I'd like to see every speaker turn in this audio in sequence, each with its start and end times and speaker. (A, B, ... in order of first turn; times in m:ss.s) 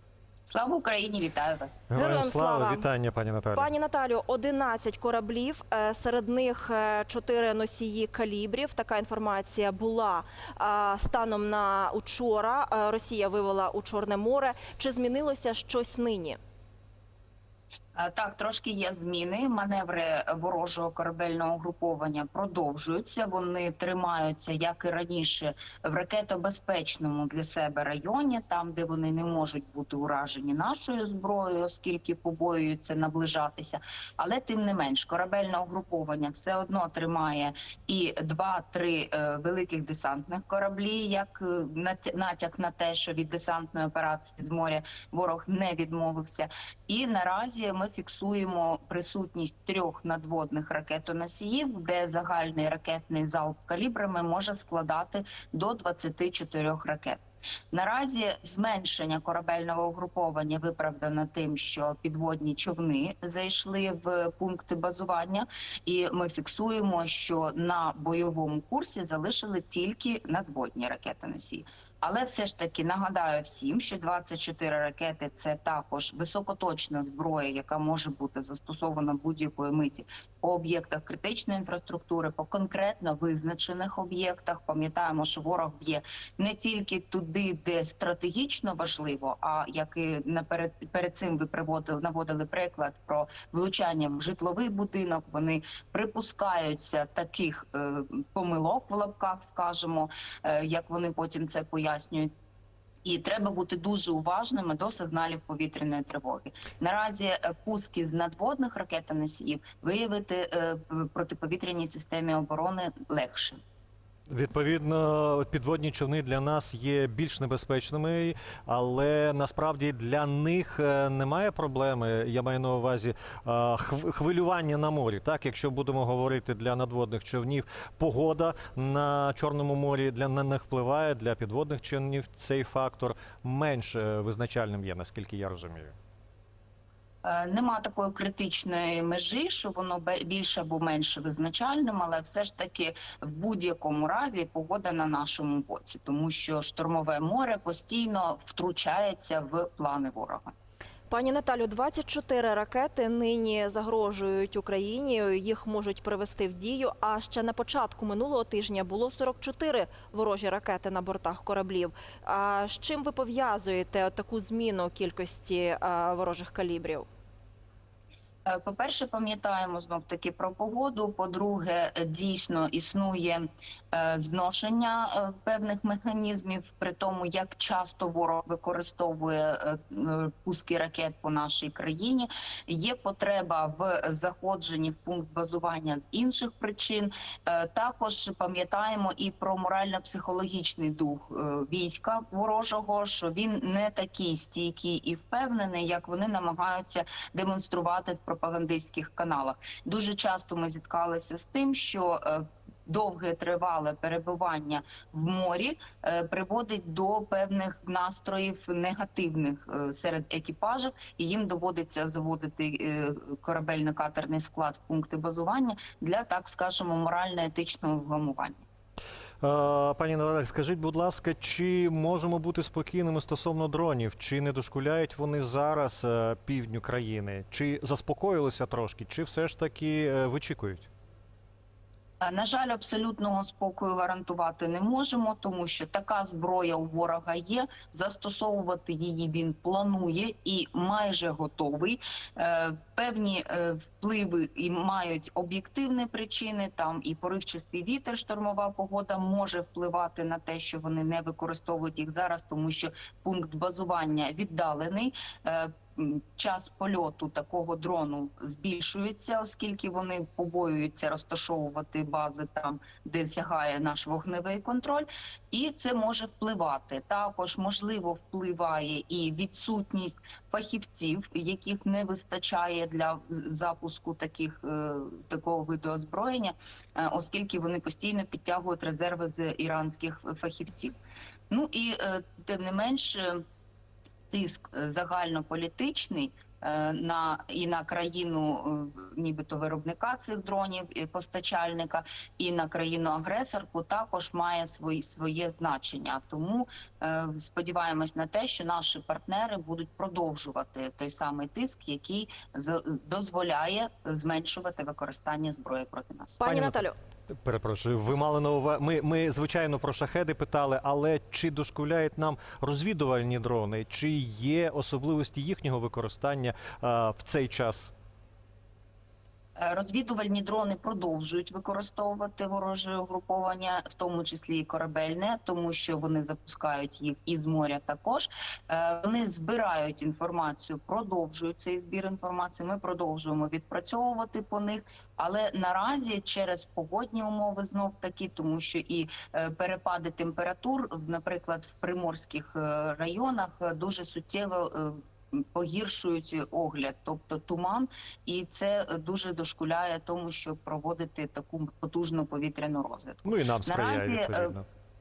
0:00.5-0:01.8 A
0:01.9-0:03.7 B
0:01.9-0:02.8 C
0:03.5-0:16.4 C
0:18.0-0:57.2 A
0:57.7-1:42.3 A
1:43.0-1:53.6 A
1:54.3-2:15.9 B
2:17.2-2:30.5 A
2:31.1-2:47.1 C
2:48.4-3:38.6 A
3:39.4-3:50.9 B
3:52.2-4:40.9 A
4:41.5-4:43.4 A
4:44.3-5:06.4 A
5:06.4-5:07.0 C
5:06.4-5:06.8 B
5:07.4-5:17.9 B
5:19.6-5:54.5 A
5:53.2-5:54.6 B